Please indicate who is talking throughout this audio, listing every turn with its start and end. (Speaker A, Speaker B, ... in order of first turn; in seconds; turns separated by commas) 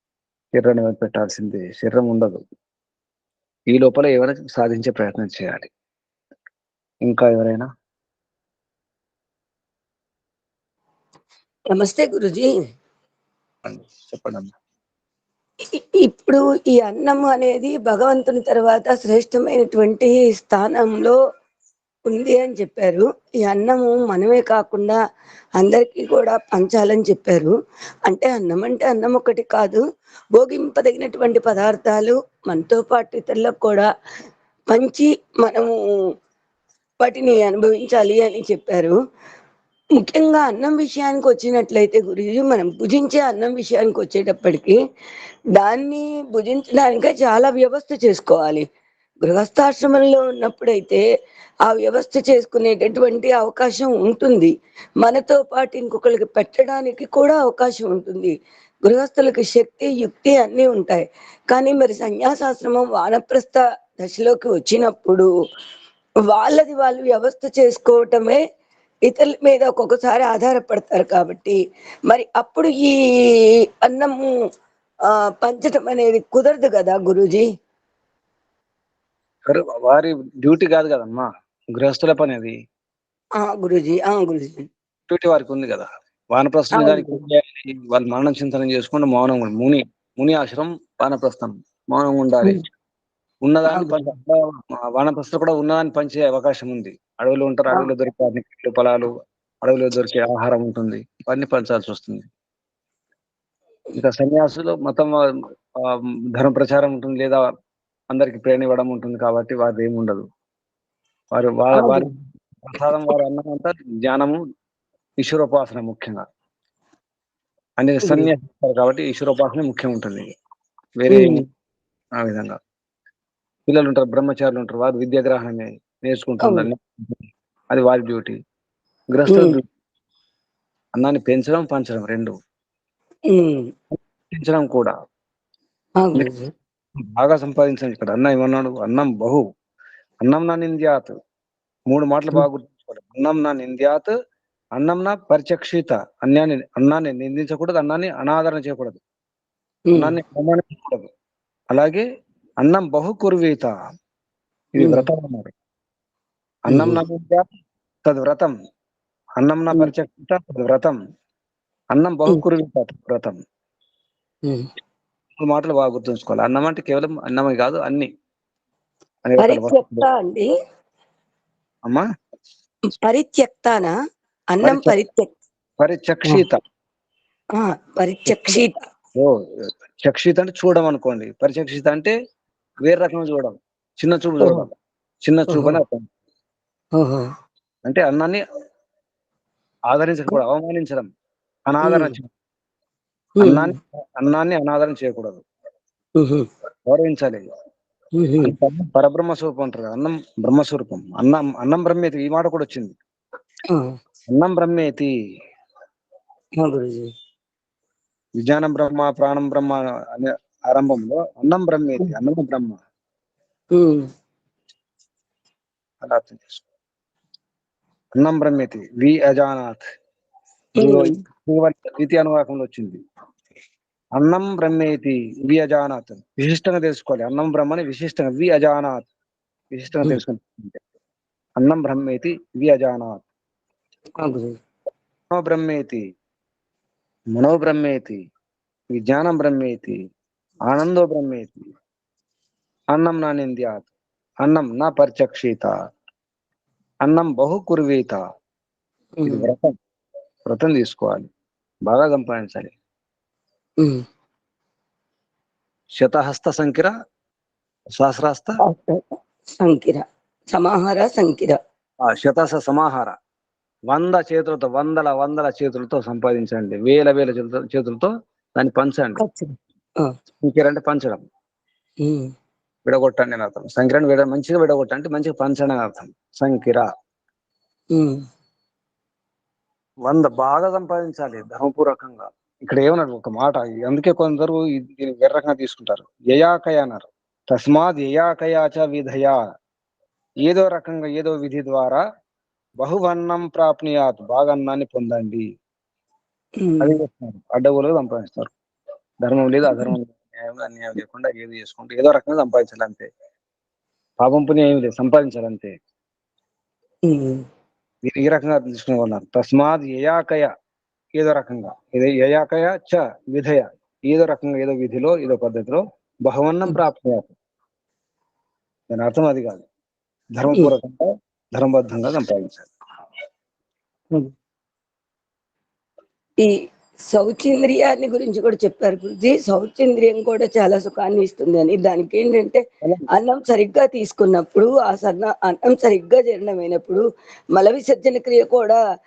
Speaker A: 0.5-2.4, Speaker A: 3.7-5.7, Speaker A: 7.0-7.7, Speaker B: 11.7-12.5, Speaker A: 13.6-14.5, Speaker B: 15.7-21.2, Speaker B: 22.1-25.0, Speaker B: 25.6-27.5, Speaker B: 28.1-29.8, Speaker B: 30.3-33.9, Speaker B: 34.7-35.7, Speaker B: 37.0-39.0, Speaker B: 40.0-44.8, Speaker B: 45.6-48.6, Speaker B: 49.2-51.0, Speaker B: 51.7-58.3, Speaker B: 58.9-65.3, Speaker B: 66.3-68.4, Speaker B: 69.1-74.3, Speaker B: 75.1-77.5, Speaker A: 79.5-82.5, Speaker B: 83.4-84.7, Speaker A: 85.1-92.6, Speaker B: 86.7-87.2, Speaker A: 93.4-99.1, Speaker B: 93.7-94.0, Speaker A: 99.6-102.3, Speaker A: 103.9-105.2, Speaker A: 105.8-107.4, Speaker A: 108.1-110.2, Speaker A: 111.3-112.1, Speaker B: 111.7-112.1, Speaker A: 112.6-114.4, Speaker A: 115.2-116.2, Speaker A: 117.8-120.3, Speaker A: 121.0-121.4, Speaker B: 121.1-121.4, Speaker A: 122.2-122.6, Speaker A: 123.7-128.3, Speaker A: 129.1-129.6, Speaker B: 129.3-129.6, Speaker A: 130.9-132.3, Speaker B: 133.3-133.7, Speaker A: 133.9-134.9, Speaker B: 136.0-136.5, Speaker A: 137.2-139.4, Speaker A: 140.2-141.1, Speaker A: 141.9-144.1, Speaker A: 144.8-149.0, Speaker A: 149.9-151.1, Speaker A: 151.7-152.0, Speaker A: 152.6-153.7, Speaker A: 154.8-155.5, Speaker B: 154.8-155.1, Speaker A: 156.7-157.4, Speaker B: 156.7-157.0, Speaker A: 158.0-158.5, Speaker A: 159.4-160.9, Speaker A: 161.9-163.4, Speaker A: 165.4-168.1, Speaker A: 169.2-170.1, Speaker B: 169.4-170.5, Speaker B: 172.9-173.9, Speaker B: 174.5-175.3, Speaker A: 174.6-174.9, Speaker A: 175.8-176.6, Speaker B: 177.5-178.8, Speaker A: 178.3-178.6, Speaker A: 179.2-182.1, Speaker A: 182.8-184.7, Speaker B: 184.4-184.7, Speaker A: 185.2-186.1, Speaker B: 185.5-185.8, Speaker B: 187.0-187.2, Speaker A: 187.8-188.4, Speaker A: 189.9-191.1, Speaker A: 191.7-192.3, Speaker B: 191.8-192.1, Speaker B: 193.4-193.7, Speaker A: 193.4-195.4, Speaker B: 196.2-196.5, Speaker A: 196.9-197.4, Speaker B: 198.2-198.5, Speaker A: 198.4-203.0, Speaker B: 203.7-203.9, Speaker A: 204.3-205.1, Speaker B: 206.6-207.1, Speaker A: 208.4-212.8, Speaker B: 213.7-214.1, Speaker A: 216.0-216.6, Speaker A: 218.2-219.9, Speaker B: 220.8-221.1, Speaker A: 220.8-223.0, Speaker A: 224.2-229.0, Speaker A: 229.7-230.8, Speaker A: 231.6-233.2, Speaker B: 234.2-234.5, Speaker A: 235.3-236.0, Speaker A: 237.3-238.2, Speaker A: 238.9-239.9, Speaker A: 240.7-241.7, Speaker A: 242.9-243.9, Speaker A: 244.4-245.7, Speaker A: 247.0-248.2, Speaker B: 249.2-249.5, Speaker A: 249.2-249.7, Speaker A: 250.5-251.3, Speaker A: 251.9-252.7, Speaker A: 256.0-256.9, Speaker A: 257.9-258.6, Speaker B: 258.6-261.6, Speaker A: 262.0-263.1, Speaker A: 263.9-269.2, Speaker B: 269.2-270.1, Speaker A: 270.4-271.2, Speaker B: 272.0-272.3, Speaker A: 272.9-276.9, Speaker B: 277.9-278.2, Speaker A: 280.1-289.4, Speaker A: 290.4-292.0, Speaker A: 292.8-295.4, Speaker B: 296.6-296.9, Speaker A: 296.8-298.5, Speaker A: 299.2-303.1, Speaker B: 299.7-299.9, Speaker A: 304.2-305.7, Speaker B: 307.1-307.4, Speaker A: 308.0-310.5, Speaker A: 311.2-317.3, Speaker A: 318.9-319.6, Speaker A: 320.4-322.7, Speaker B: 327.1-337.0, Speaker A: 332.8-333.1, Speaker B: 337.5-338.8